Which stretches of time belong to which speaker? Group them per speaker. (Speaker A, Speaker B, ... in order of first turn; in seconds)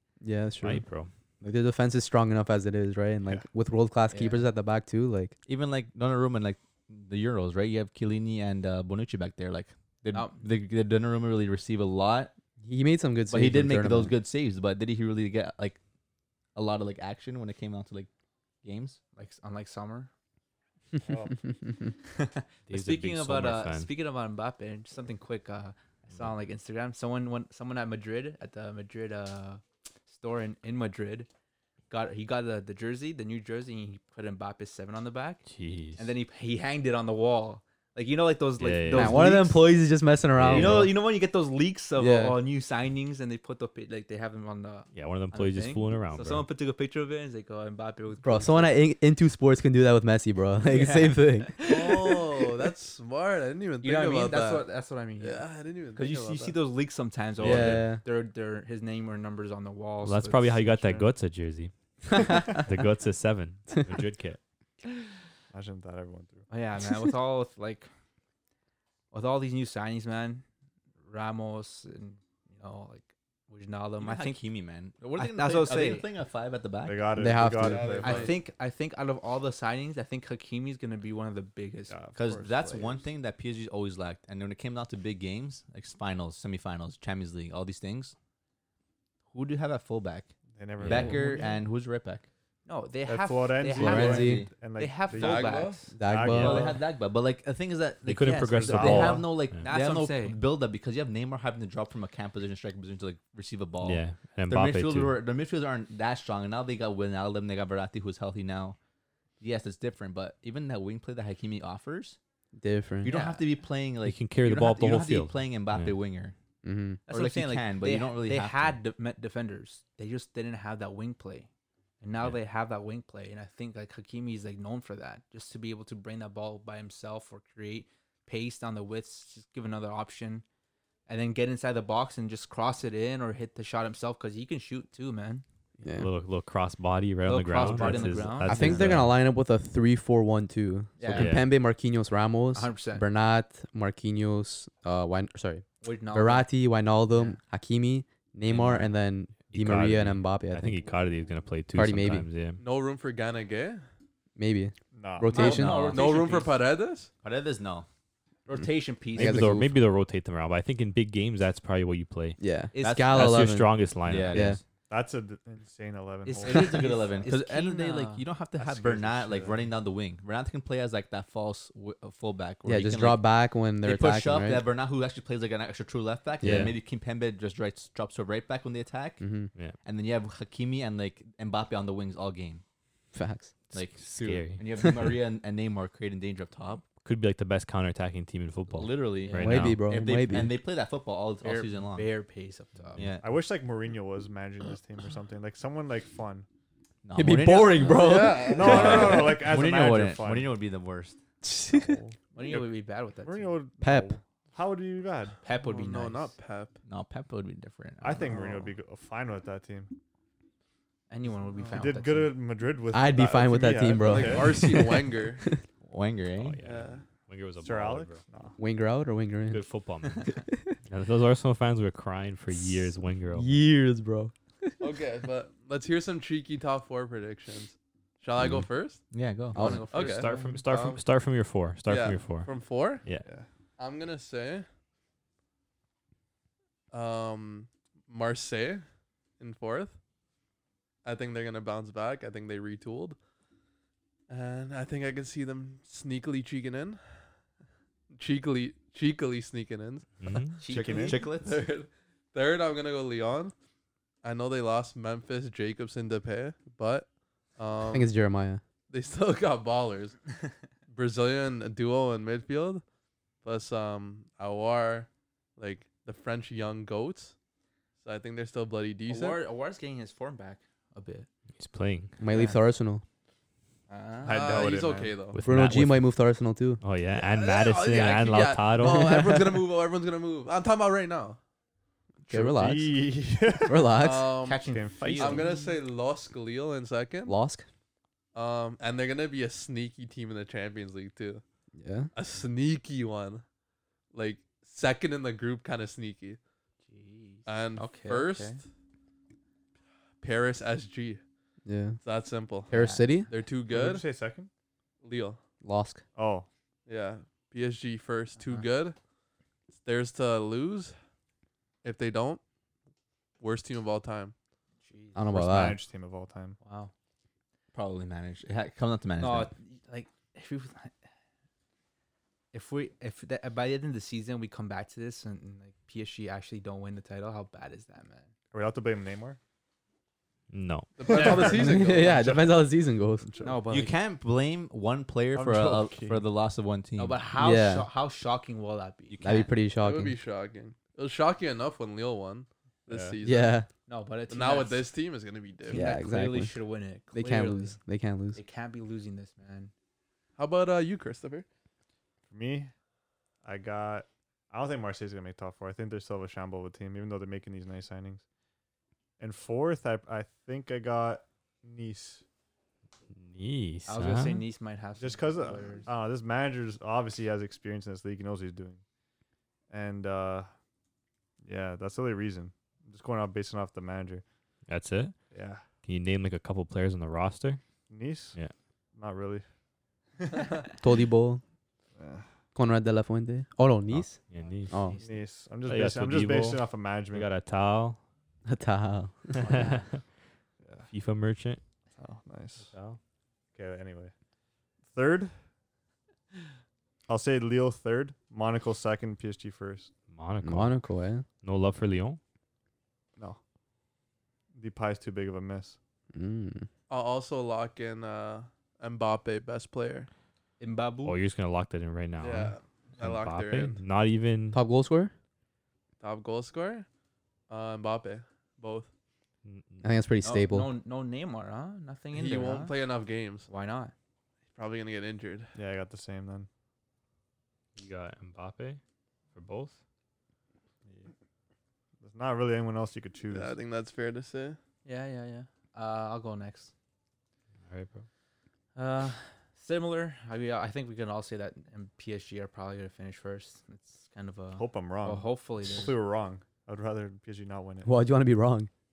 Speaker A: 0.2-0.8, 1.4-5.3, 12.6-14.1, 38.9-40.9, 42.0-42.4, 48.2-51.6, 57.4-58.0, 62.1-62.6, 77.2-78.0, 93.7-94.5, 95.9-96.8, 112.5-113.1, 116.6-117.0, 135.8-136.1, 138.4-150.8, 151.7-152.3, 154.4-155.9, 159.2-159.7, 162.4-164.6, 172.7-174.6, 176.4-176.7, 179.2-179.5, 183.1-183.5, 189.4-190.5, 197.1-199.3, 201.4-201.9, 203.8-204.2, 212.9-215.6, 218.6-219.6, 220.3-220.7, 222.6-224.7, 229.5-229.9, 257.9-258.6, 272.2-273.0, 275.4-276.8, 278.8-279.5, 282.3-284.3, 287.3-287.6, 291.7-292.1, 301.6-302.0, 302.7-303.3, 305.6-306.0, 315.1-315.8, 331.3-333.2, 337.4-337.9, 339.2-340.1, 343.2-343.7, 345.7-346.6, 347.1-348.4, 380.8-381.4, 382.5-385.0, 388.4-389.7, 400.4-401.2, 406.1-406.7, 414.5-415.1, 419.8-420.7, 447.8-448.7
Speaker B: 0.6-1.1, 22.7-23.9, 35.5-36.1, 38.6-39.3, 40.3-40.9, 44.9-46.5, 57.4-57.8, 60.0-64.4, 90.8-91.2, 98.0-99.7, 103.8-105.2, 114.0-116.0, 135.9-139.1, 141.1-141.5, 148.5-148.9, 149.5-152.6, 159.1-162.4, 163.1-164.6, 176.4-176.7, 183.7-184.7, 187.0-189.8, 216.4-218.2, 219.5-223.5, 229.9-233.3, 250.2-250.7, 271.6-272.1, 275.3-276.1, 276.8-279.2, 330.5-331.0, 363.1-364.4, 374.7-375.1, 375.8-377.6, 383.9-384.7, 385.6-388.0, 389.3-390.0, 390.9-391.6, 392.7-393.0, 400.1-400.8, 401.4-402.2, 411.0-414.6, 419.4-419.9, 427.8-428.8, 429.3-429.8, 437.7-438.1
Speaker C: 4.1-4.5, 10.1-10.4, 19.1-20.1, 22.1-31.3, 31.9-35.4, 36.0-39.6, 40.4-48.8, 50.6-52.5, 53.8-60.6, 66.5-67.9, 69.1-70.4, 71.0-74.4, 75.2-76.1, 78.0-82.0, 82.5-83.0, 92.7-95.9, 98.2-100.4, 113.0-113.5, 117.1-121.5, 122.0-130.4, 131.1-135.4, 137.2-138.8, 141.0-141.4, 142.5-143.1, 145.8-146.5, 147.1-147.4, 155.3-156.6, 158.5-159.6, 162.7-163.1, 166.2-168.3, 191.4-193.1, 202.3-203.6, 205.4-206.3, 211.1-212.4, 229.5-230.9, 250.6-251.2, 269.1-271.3, 272.3-272.6, 273.9-274.7, 284.3-285.8, 296.9-298.6, 302.7-303.2, 308.4-308.6, 314.8-315.3, 316.6-316.9, 319.2-320.9, 322.5-328.3, 333.4-333.9, 337.0-339.5, 343.9-344.9, 345.7-347.8, 348.3-349.7, 363.9-365.9, 384.8-385.2, 410.6-411.2, 420.2-422.8, 423.5-423.9, 434.8-436.7, 438.7-445.9
Speaker D: 5.5-12.3, 13.3-15.8, 16.5-18.1, 18.6-19.0, 74.0-77.2, 82.2-88.1, 89.3-92.3, 93.8-94.5, 96.3-108.8, 109.4-112.2, 113.0-116.3, 117.1-118.8, 155.4-156.4, 157.2-157.9, 162.8-164.6, 166.4-173.2, 173.8-179.3, 179.8-182.6, 183.7-186.8, 188.7-192.1, 192.9-193.2, 197.0-201.2, 206.8-208.6, 215.8-216.6, 229.1-229.8, 250.6-251.6, 317.7-319.5, 333.7-337.2, 339.1-339.5
Speaker E: 21.0-21.4, 60.7-61.1, 65.5-66.4, 76.8-78.3, 81.9-82.7, 90.5-91.5, 93.1-96.8, 98.7-99.2, 154.9-155.5, 164.9-167.3, 168.6-169.6, 193.2-196.4, 198.5-200.5, 201.7-202.7, 203.2-205.4, 208.0-209.9, 211.7-214.8, 217.6-218.6, 250.7-251.2, 274.2-275.2, 282.3-283.9, 284.6-285.5, 303.7-304.5, 306.1-306.5, 315.3-316.6, 328.5-329.4, 331.1-331.8, 333.2-333.6, 335.3-336.2, 342.9-343.2, 352.3-352.7, 353.4-358.2, 359.2-362.2, 365.0-368.8, 369.7-370.5, 371.4-374.2, 375.3-375.6, 377.9-378.4, 378.9-379.4, 382.0-382.2, 385.0-387.3, 389.4-389.8, 390.6-390.9, 392.0-392.7, 393.5-394.1, 394.9-395.4, 397.1-399.9, 404.5-405.8, 425.5-426.5, 432.0-433.6, 444.5-447.9
Speaker F: 51.6-54.7, 55.2-56.6, 77.6-78.4, 95.1-95.9, 152.6-153.8, 155.9-157.1, 197.8-199.2, 205.5-206.8, 211.6-211.9, 214.0-215.5, 216.6-217.1, 224.8-229.1, 229.9-231.0, 231.8-233.1, 233.8-234.7, 236.9-238.8, 239.4-239.9, 241.0-243.2, 244.3-247.3, 248.1-250.2, 250.8-253.5, 254.2-258.1, 258.9-260.2, 260.9-262.8, 263.4-267.3, 268.0-269.4, 274.3-275.4, 277.1-281.4, 283.9-287.3, 288.3-291.4, 292.1-293.4, 294.1-296.4, 297.4-298.6, 300.2-301.2, 302.0-304.0, 305.0-305.4, 306.9-308.9, 309.7-310.9, 311.8-312.4, 313.4-314.3, 331.0-332.6, 339.8-343.5, 344.3-345.8, 350.4-351.4, 406.9-410.1, 412.2-413.8, 416.0-416.9, 417.5-418.9, 422.1-423.5, 424.5-425.5, 433.3-434.6